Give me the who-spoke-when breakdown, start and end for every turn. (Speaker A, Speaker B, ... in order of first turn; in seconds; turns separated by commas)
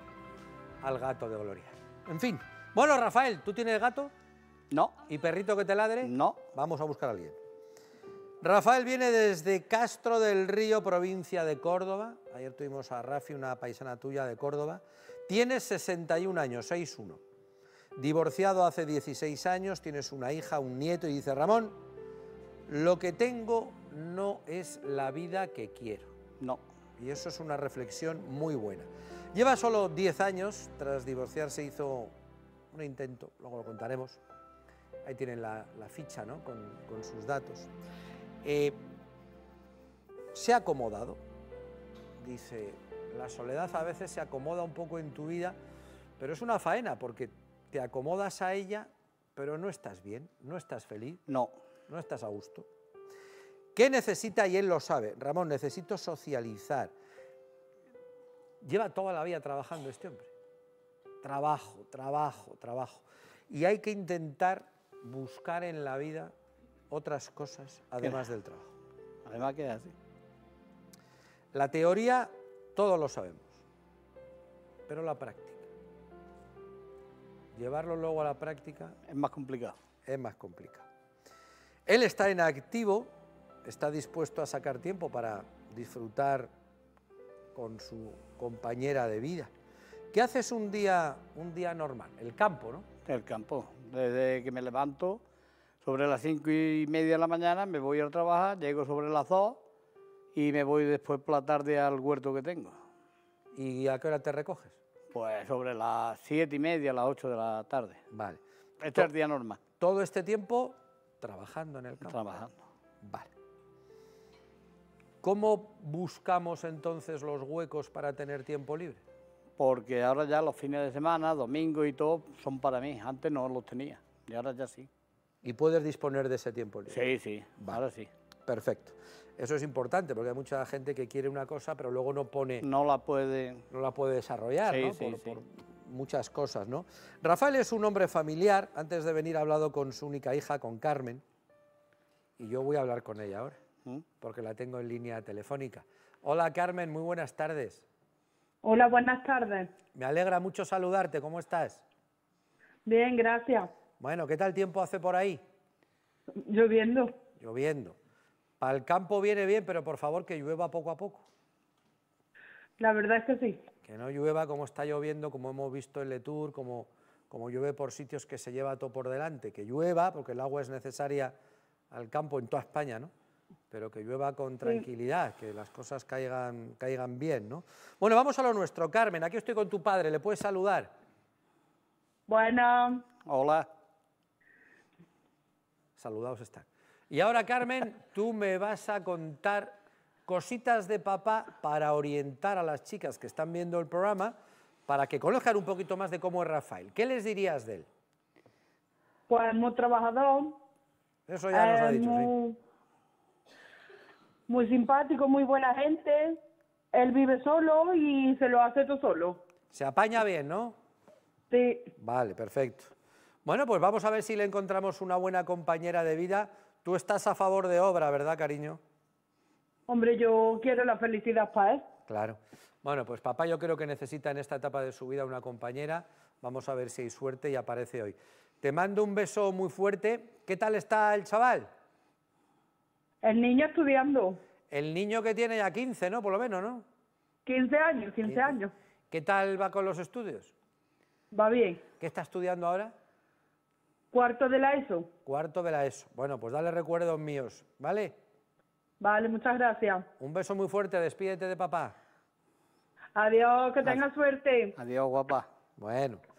Speaker A: 0.8-4.1, Speaker A: 5.0-7.4, Speaker B: 6.0-6.4, Speaker A: 8.4-17.2, Speaker A: 17.9-21.8, Speaker A: 22.7-26.1, Speaker A: 27.0-32.1, Speaker A: 32.7-34.2, Speaker A: 35.0-37.7, Speaker A: 38.4-38.8, Speaker A: 40.3-41.2, Speaker A: 42.2-45.6, Speaker A: 46.2-51.2, Speaker B: 51.3-51.5, Speaker A: 51.9-52.7, Speaker A: 53.7-56.9, Speaker A: 58.6-60.3, Speaker A: 61.2-66.3, Speaker A: 66.9-68.7, Speaker B: 68.0-68.3, Speaker B: 69.2-69.9, Speaker A: 71.5-73.6, Speaker A: 74.9-75.7, Speaker A: 77.5-79.0, Speaker B: 79.0-79.8, Speaker A: 80.0-80.9, Speaker A: 81.8-83.1, Speaker A: 83.6-86.5, Speaker A: 87.5-89.5, Speaker A: 90.1-92.9, Speaker B: 93.0-95.2, Speaker B: 95.8-99.6, Speaker B: 100.3-102.8, Speaker A: 103.5-104.8, Speaker B: 105.1-108.0, Speaker A: 108.1-108.4, Speaker B: 108.8-109.6, Speaker A: 109.8-112.2, Speaker B: 112.0-112.6, Speaker A: 113.0-113.3, Speaker A: 115.2-119.0, Speaker B: 119.6-124.9, Speaker A: 125.4-127.0, Speaker B: 126.9-128.1, Speaker A: 128.5-132.7, Speaker B: 132.6-133.7, Speaker A: 133.7-141.2, Speaker B: 134.6-135.4, Speaker A: 142.4-143.6, Speaker A: 144.2-147.8, Speaker C: 148.6-149.7, Speaker A: 149.9-151.8, Speaker C: 152.8-153.7, Speaker A: 154.0-155.4, Speaker C: 156.3-157.2, Speaker A: 157.4-158.0, Speaker A: 158.6-161.2, Speaker C: 162.8-163.6, Speaker A: 163.8-171.3, Speaker A: 171.9-173.1, Speaker A: 173.7-180.9, Speaker C: 182.3-183.1, Speaker B: 183.2-183.7, Speaker A: 186.0-197.9, Speaker C: 199.3-200.6, Speaker A: 201.3-202.3, Speaker C: 201.5-202.6, Speaker C: 204.5-206.4, Speaker C: 206.9-209.4, Speaker A: 209.7-210.8, Speaker C: 211.5-211.9, Speaker A: 212.0-212.9, Speaker A: 213.4-218.8, Speaker C: 219.9-221.8, Speaker A: 222.1-231.7, Speaker C: 233.2-234.4, Speaker A: 234.7-236.8, Speaker C: 237.4-238.7, Speaker A: 238.2-238.6, Speaker A: 239.1-240.5, Speaker C: 241.3-241.8, Speaker A: 242.0-242.9, Speaker C: 244.1-245.1, Speaker A: 245.2-248.2, Speaker C: 249.0-250.1, Speaker A: 250.2-251.9, Speaker C: 253.2-254.8, Speaker B: 254.8-255.5, Speaker A: 255.8-256.2